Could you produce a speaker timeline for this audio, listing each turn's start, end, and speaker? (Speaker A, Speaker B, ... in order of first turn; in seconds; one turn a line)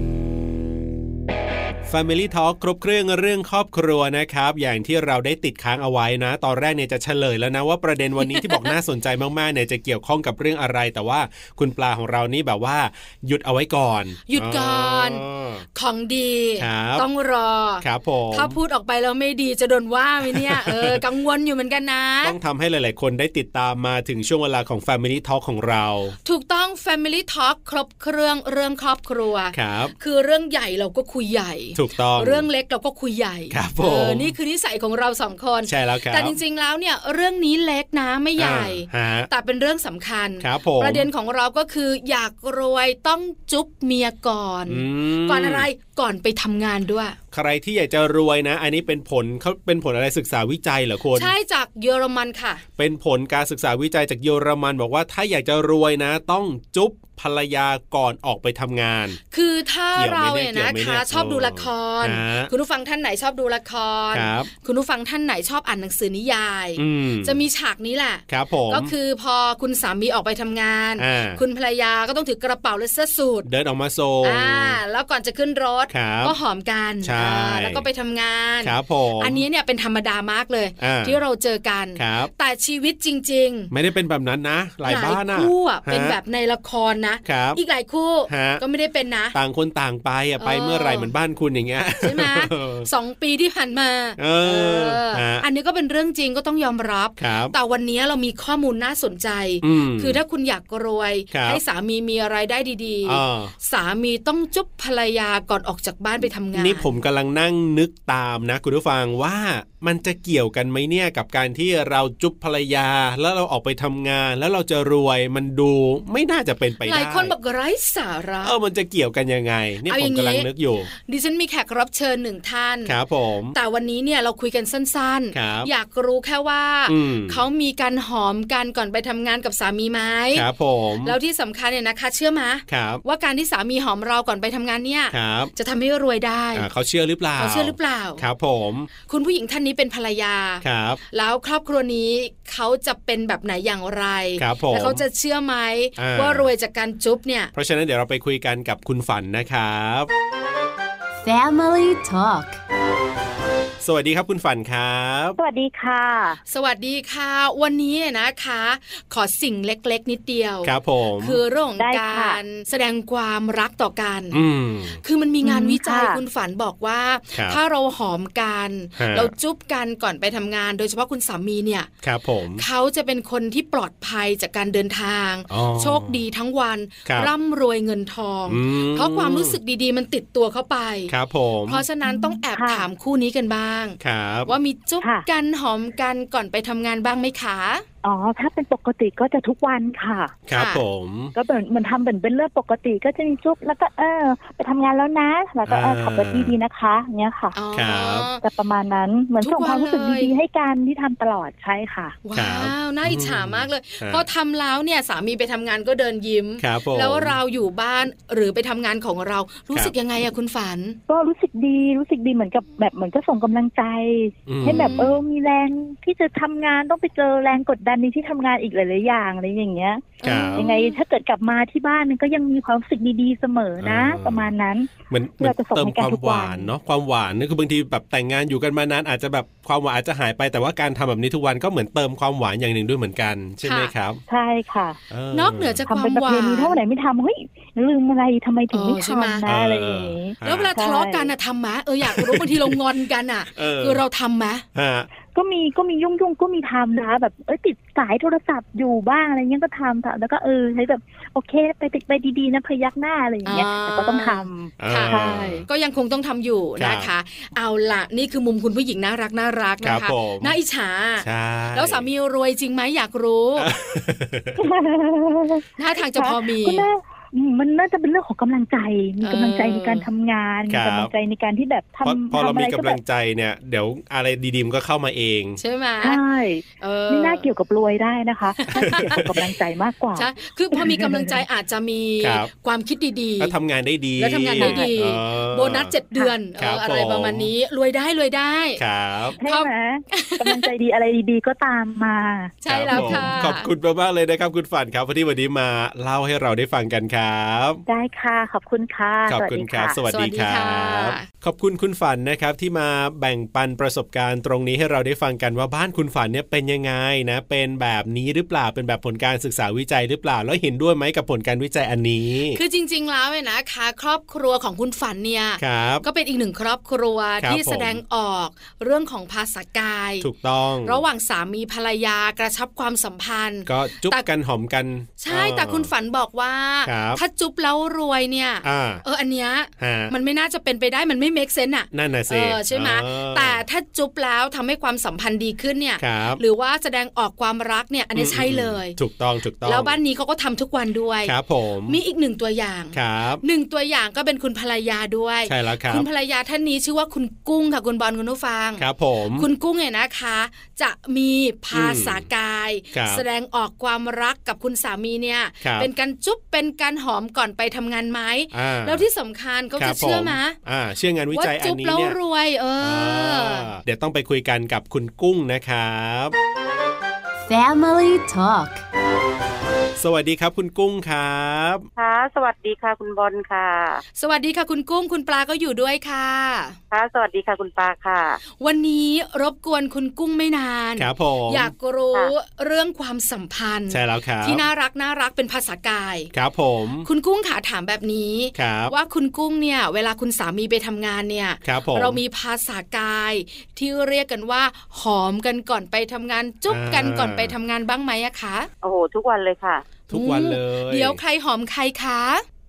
Speaker A: 1.9-15.6
Speaker B: 8.2-8.7
Speaker B: 14.3-22.4
Speaker A: 16.6-17.1
Speaker A: 17.8-18.6
Speaker A: 20.2-21.0
Speaker A: 22.2-26.1
Speaker B: 26.2-47.2
Speaker A: 29.5-29.9
Speaker A: 31.8-32.5
Speaker A: 33.5-34.3
Speaker A: 35.6-36.4
Speaker A: 38.4-39.3
Speaker A: 40.4-41.1
Speaker A: 44.7-45.7
Speaker A: 47.3-51.3
Speaker B: 51.1-52.6
Speaker A: 52.8-59.2
Speaker B: 59.3-73.5
Speaker A: 59.9-62.5
Speaker A: 64.1-64.5
Speaker A: 66.8-67.4
Speaker A: 68.3-68.9
Speaker A: 71.0-71.4
Speaker A: 73.4-74.8
Speaker B: 74.2-83.7
Speaker A: 75.9-76.3
Speaker A: 77.0-77.8
Speaker A: 78.6-79.4
Speaker A: 80.8-81.2
Speaker A: 82.0-82.3
Speaker A: 83.7-86.2
Speaker B: 84.8-89.3
Speaker A: 87.2-87.6
Speaker A: 88.3-88.6
Speaker A: 89.3-92.9
Speaker B: 90.4-91.1
Speaker B: 92.0-106.9
Speaker A: 94.2-95.4
Speaker A: 97.2-97.5
Speaker A: 99.6-100.2
Speaker A: 101.3-101.6
Speaker A: 103.0-103.5
Speaker A: 106.5-117.3
Speaker B: 116.8-118.5
Speaker A: 118.4-120.9
Speaker B: 119.9-122.9
Speaker A: 122.8-123.5
Speaker B: 123.5-130.5
Speaker A: 125.3-125.7
Speaker A: 126.9-127.4
Speaker A: 130.3-131.2
Speaker B: 131.0-136.7
Speaker A: 132.7-133.0
Speaker A: 135.1-135.5
Speaker A: 136.5-138.9
Speaker B: 137.4-138.2
Speaker B: 139.0-147.5
Speaker A: 140.6-141.0
Speaker A: 144.4-145.0
Speaker A: 146.0-146.4
Speaker A: 147.5-150.1
Speaker C: 151.2-152.6
Speaker A: 153.8-155.4
Speaker D: 155.4-156.4
Speaker B: 156.5-164.4
Speaker A: 160.6-161.4
Speaker D: 161.8-162.4
Speaker A: 164.3-165.0
Speaker B: 165.0-171.9
Speaker D: 165.4-166.2
Speaker A: 167.3-167.6
Speaker A: 168.9-169.3
Speaker A: 172.0-172.6
Speaker B: 172.6-181.1
Speaker A: 175.5-176.2
Speaker A: 177.1-177.3
Speaker A: 178.5-179.6
Speaker A: 181.1-181.8
Speaker B: 181.7-187.8
Speaker D: 182.0-182.9
Speaker A: 184.0-184.5
Speaker D: 185.0-185.3
Speaker D: 188.0-190.3
Speaker A: 190.5-191.3
Speaker B: 190.5-190.8
Speaker D: 191.3-197.6
Speaker A: 195.7-196.5
Speaker B: 197.5-198.4
Speaker A: 197.7-198.3
Speaker D: 198.4-202.2
Speaker B: 199.4-200.3
Speaker B: 202.2-211.0
Speaker A: 202.3-204.2
Speaker A: 206.6-207.3
Speaker D: 211.1-226.7
Speaker A: 214.5-215.2
Speaker B: 214.6-215.1
Speaker B: 220.2-221.0
Speaker A: 220.2-220.7
Speaker A: 223.8-224.5
Speaker A: 225.1-234.2
Speaker B: 233.6-233.9
Speaker D: 234.3-235.0
Speaker A: 235.1-235.8
Speaker B: 235.3-236.8
Speaker D: 235.9-241.3
Speaker B: 238.7-239.5
Speaker A: 239.4-240.7
Speaker B: 240.4-244.6
Speaker A: 242.0-242.8
Speaker A: 243.5-244.0
Speaker A: 244.7-245.1
Speaker D: 245.3-255.5
Speaker B: 253.4-263.7
Speaker A: 254.8-255.7
Speaker A: 256.8-257.1
Speaker A: 259.8-260.5
Speaker A: 261.2-262.1
Speaker A: 263.6-264.6
Speaker D: 264.6-273.0
Speaker B: 265.8-266.9
Speaker B: 269.2-270.1
Speaker A: 270.7-271.1
Speaker A: 272.0-275.6
Speaker B: 275.6-276.2
Speaker D: 276.0-281.4
Speaker B: 276.8-277.5
Speaker B: 278.6-279.3
Speaker A: 278.7-279.3
Speaker B: 280.1-283.5
Speaker A: 282.2-282.5
Speaker A: 283.4-285.9
Speaker B: 284.2-288.8
Speaker D: 284.6-284.9
Speaker A: 286.6-287.5
Speaker A: 288.8-289.4
Speaker D: 289.4-293.5
Speaker B: 289.4-290.7
Speaker B: 292.6-293.7
Speaker A: 292.7-297.8
Speaker D: 297.9-300.0
Speaker A: 299.3-312.6
Speaker B: 300.1-301.2
Speaker B: 312.5-320.3
Speaker A: 315.6-316.0
Speaker A: 317.4-318.0
Speaker A: 320.2-321.0
Speaker B: 320.8-324.2
Speaker A: 323.6-325.9
Speaker B: 325.2-339.0
Speaker A: 326.9-327.2
Speaker A: 328.6-329.0
Speaker A: 329.8-330.1
Speaker A: 331.9-333.6
Speaker A: 336.0-336.4
Speaker A: 338.1-340.0
Speaker B: 339.6-341.3
Speaker A: 341.2-342.0
Speaker B: 341.9-348.8
Speaker A: 342.9-343.4
Speaker A: 345.5-346.1
Speaker A: 348.8-349.5
Speaker B: 349.4-360.6
Speaker A: 351.7-352.2
Speaker A: 352.9-353.2
Speaker A: 355.6-355.9
Speaker A: 358.5-359.0
Speaker A: 359.8-362.2
Speaker B: 361.3-363.7
Speaker A: 362.8-366.3
Speaker C: 367.4-368.8
Speaker A: 370.0-371.9
Speaker E: 372.0-374.0
Speaker B: 374.2-376.8
Speaker E: 376.9-378.4
Speaker B: 378.6-386.3
Speaker A: 381.0-381.7
Speaker A: 383.9-384.6
Speaker A: 386.3-387.1
Speaker B: 387.0-398.7
Speaker A: 388.5-388.9
Speaker A: 391.6-392.2
Speaker A: 396.7-397.5
Speaker E: 398.8-399.8
Speaker A: 400.1-401.2
Speaker B: 400.1-402.4